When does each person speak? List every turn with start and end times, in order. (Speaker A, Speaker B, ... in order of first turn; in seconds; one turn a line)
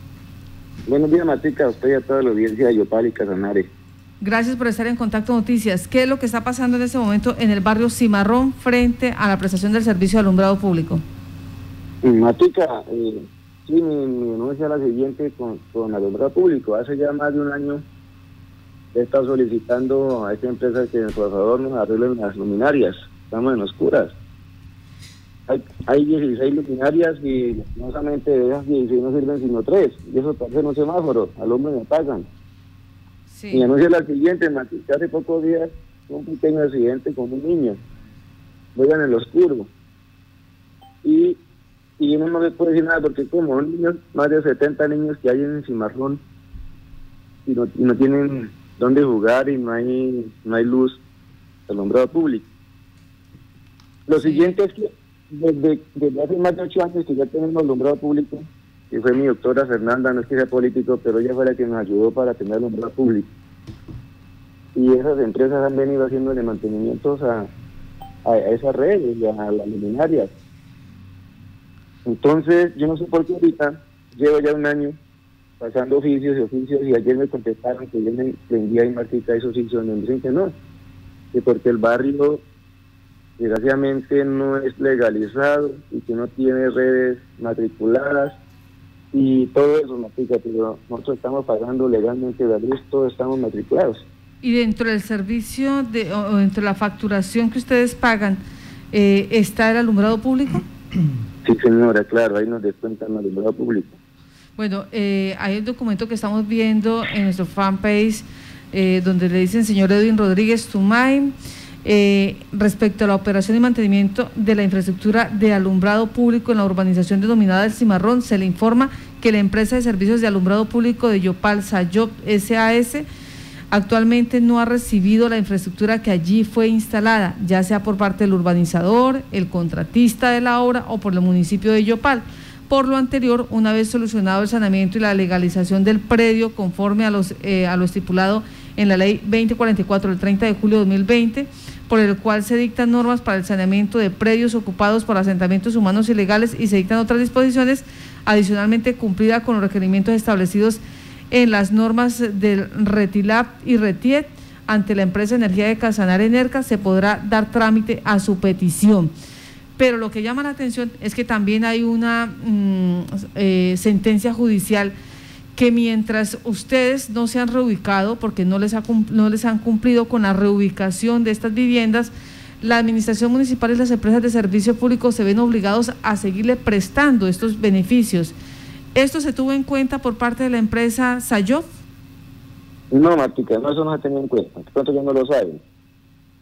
Speaker A: 0.9-3.7
Speaker B: 4.2-11.0
Speaker A: 12.0-17.8
Speaker A: 18.9-24.1
Speaker A: 25.5-32.3
Speaker B: 33.3-33.7
Speaker A: 33.5-37.8
Speaker A: 38.7-39.7
Speaker A: 41.0-41.4
Speaker A: 42.0-46.2
Speaker A: 47.5-51.0
Speaker A: 51.7-52.5
Speaker A: 54.1-63.3
Speaker B: 54.2-54.5
Speaker A: 64.7-67.5
Speaker A: 68.2-70.3
Speaker A: 72.0-75.0
Speaker A: 75.6-80.5
Speaker A: 81.3-82.4
Speaker A: 83.4-88.4
Speaker A: 89.1-94.0
Speaker B: 94.4-98.4
Speaker B: 98.9-100.6
Speaker A: 101.4-104.0
Speaker B: 104.6-111.3
Speaker B: 111.8-123.0
Speaker B: 123.7-159.1
Speaker B: 159.8-164.9
Speaker B: 165.5-178.3
Speaker B: 178.9-181.7
Speaker A: 182.9-185.6